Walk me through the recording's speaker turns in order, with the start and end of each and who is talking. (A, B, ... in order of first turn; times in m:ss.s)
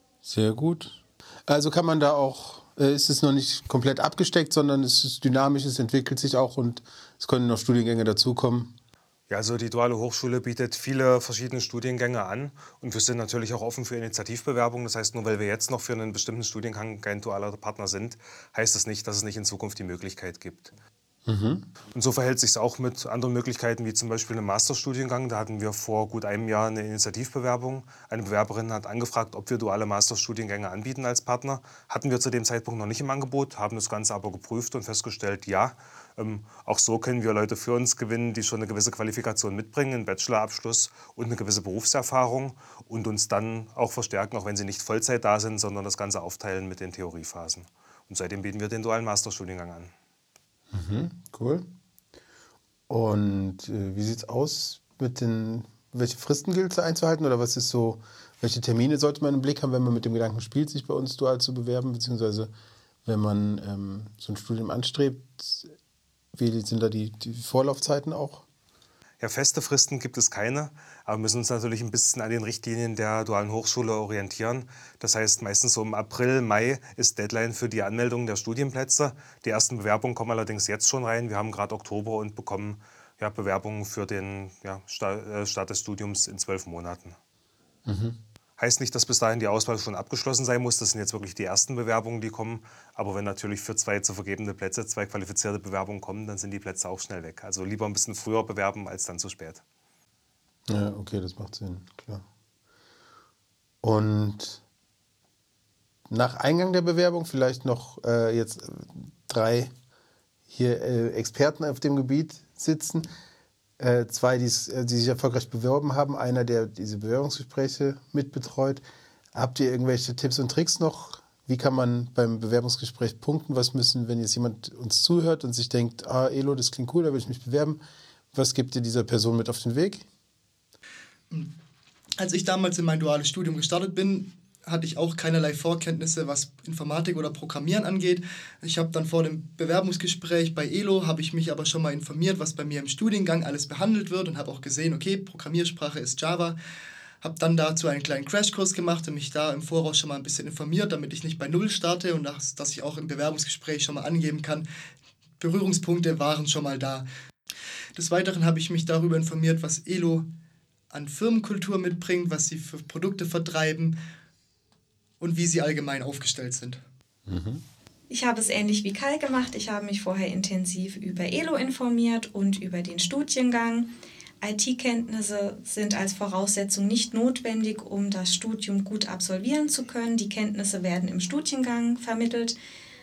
0:00.2-0:08.7 A
0:09.3-0:20.7 B
0:21.2-0:21.7 A
0:21.9-0:49.9 B
0:50.7-0:51.7 A
0:52.9-1:02.5 A
1:03.0-1:05.7 A
1:06.3-1:08.4 A
1:09.2-1:27.2 B
1:27.8-1:28.2 A
1:28.6-1:39.6 B
1:40.7-1:42.2 A
1:43.8-1:44.6 A
1:46.1-1:49.7 A
1:50.5-1:53.1 A
1:53.8-1:58.8 A
1:59.3-2:07.8 A
2:08.3-2:10.0 A
2:12.2-2:26.6 C
2:27.2-2:34.6 C
2:35.4-2:37.0 C
2:37.9-2:40.2 C
2:40.9-2:44.0 C
2:45.2-2:46.8 C
2:47.3-2:47.6 A
2:48.1-3:02.5 D